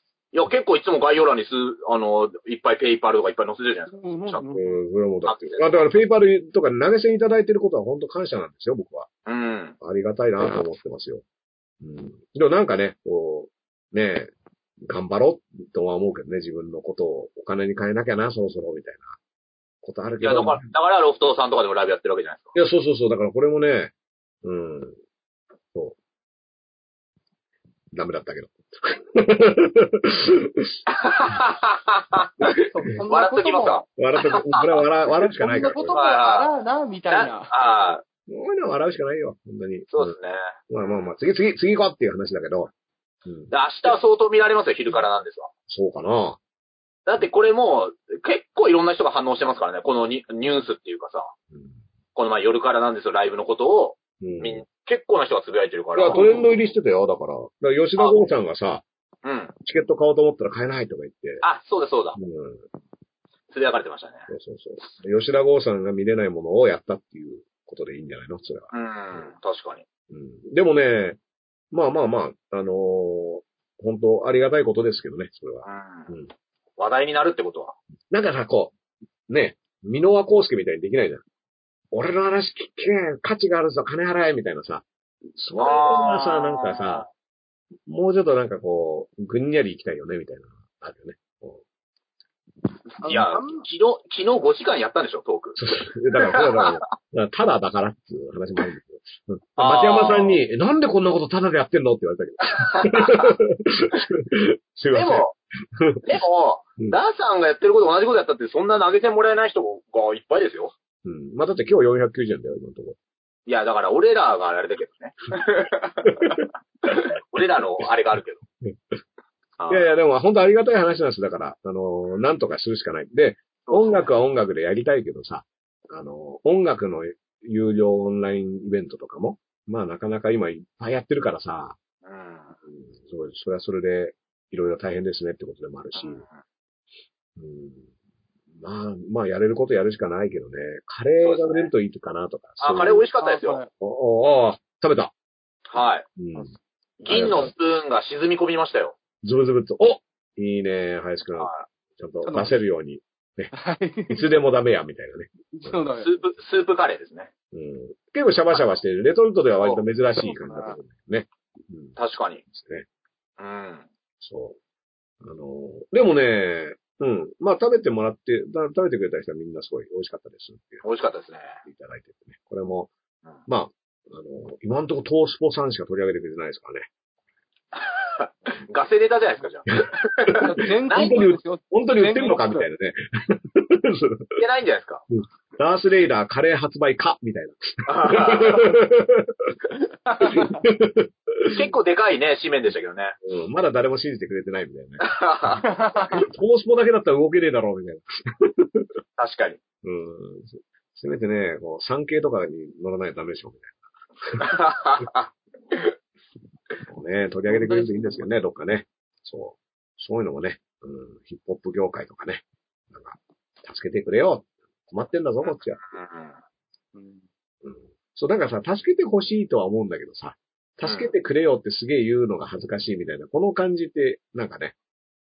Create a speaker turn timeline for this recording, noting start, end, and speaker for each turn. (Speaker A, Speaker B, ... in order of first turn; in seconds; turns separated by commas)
Speaker A: 0.3-4.5, Speaker B: 3.9-4.7, Speaker C: 4.5-9.1, Speaker A: 5.2-5.9, Speaker A: 9.2-9.8, Speaker C: 9.8-11.2, Speaker C: 11.8-14.3, Speaker C: 14.8-19.1, Speaker C: 19.8-20.7, Speaker A: 20.2-22.5, Speaker C: 22.5-25.0, Speaker C: 27.9-30.8, Speaker A: 30.9-34.6, Speaker B: 32.6-33.9, Speaker C: 34.0-36.0, Speaker B: 35.1-37.5, Speaker A: 35.9-36.5, Speaker A: 37.1-38.0, Speaker C: 38.3-40.1, Speaker A: 39.9-41.1, Speaker C: 40.7-42.7, Speaker C: 43.2-43.5, Speaker A: 43.5-45.5, Speaker C: 45.7-46.4, Speaker A: 47.0-51.3, Speaker A: 52.1-56.3, Speaker C: 54.2-54.6, Speaker C: 55.9-58.8, Speaker B: 56.1-56.4, Speaker A: 58.0-58.2, Speaker A: 59.2-59.5, Speaker C: 59.6-61.4, Speaker A: 61.4-62.2, Speaker C: 62.2-62.6, Speaker A: 63.5-64.3, Speaker C: 64.3-69.2, Speaker A: 68.7-69.8, Speaker C: 70.1-71.2, Speaker C: 71.7-76.3, Speaker A: 75.6-76.1, Speaker A: 76.8-77.8, Speaker C: 78.1-78.7, Speaker C: 79.3-81.2, Speaker C: 81.9-87.1, Speaker A: 85.5-87.1, Speaker C: 87.8-91.6, Speaker B: 93.0-93.6, Speaker A: 93.0-96.9, Speaker C: 95.5-106.1, Speaker A: 99.6-100.4, Speaker A: 102.5-103.3, Speaker A: 104.9-105.3, Speaker A: 106.0-110.7, Speaker C: 111.0-113.0, Speaker A: 113.5-118.4, Speaker C: 116.0-117.0, Speaker A: 119.6-119.9, Speaker C: 119.7-131.8, Speaker A: 123.7-124.1, Speaker A: 132.0-132.6, Speaker C: 132.9-136.2, Speaker A: 135.9-136.4, Speaker C: 137.3-137.9, Speaker C: 138.5-143.0, Speaker A: 141.2-141.7, Speaker A: 142.6-143.6, Speaker B: 143.2-143.7, Speaker C: 143.8-145.1, Speaker A: 145.7-146.1, Speaker C: 146.2-146.5, Speaker A: 147.0-149.0, Speaker C: 147.1-147.5, Speaker C: 149.2-153.5, Speaker A: 151.3-151.7, Speaker B: 152.2-152.5, Speaker B: 153.5-154.3, Speaker C: 154.1-155.8, Speaker B: 155.5-156.1, Speaker A: 156.0-157.3, Speaker C: 157.5-162.0, Speaker B: 160.2-160.7, Speaker A: 161.9-162.4, Speaker C: 162.5-162.8, Speaker A: 163.4-163.9, Speaker C: 164.2-164.6, Speaker C: 165.2-170.8, Speaker A: 170.8-171.6, Speaker C: 171.6-172.9, Speaker C: 173.5-176.9, Speaker A: 177.7-181.2, Speaker C: 180.2-184.4, Speaker B: 180.4-182.7, Speaker A: 184.4-185.0, Speaker C: 185.6-189.6, Speaker A: 187.8-188.7, Speaker C: 190.2-191.7, Speaker B: 190.2-190.6, Speaker A: 191.4-193.2, Speaker C: 193.2-198.9, Speaker A: 195.0-195.7, Speaker B: 195.6-196.2, Speaker A: 199.2-199.6, Speaker C: 199.8-203.7, Speaker C: 204.3-204.6, Speaker A: 204.4-205.9, Speaker C: 206.9-215.8, Speaker B: 207.4-208.3, Speaker A: 215.4-216.4, Speaker B: 216.9-217.2, Speaker C: 217.6-224.7, Speaker A: 220.8-221.1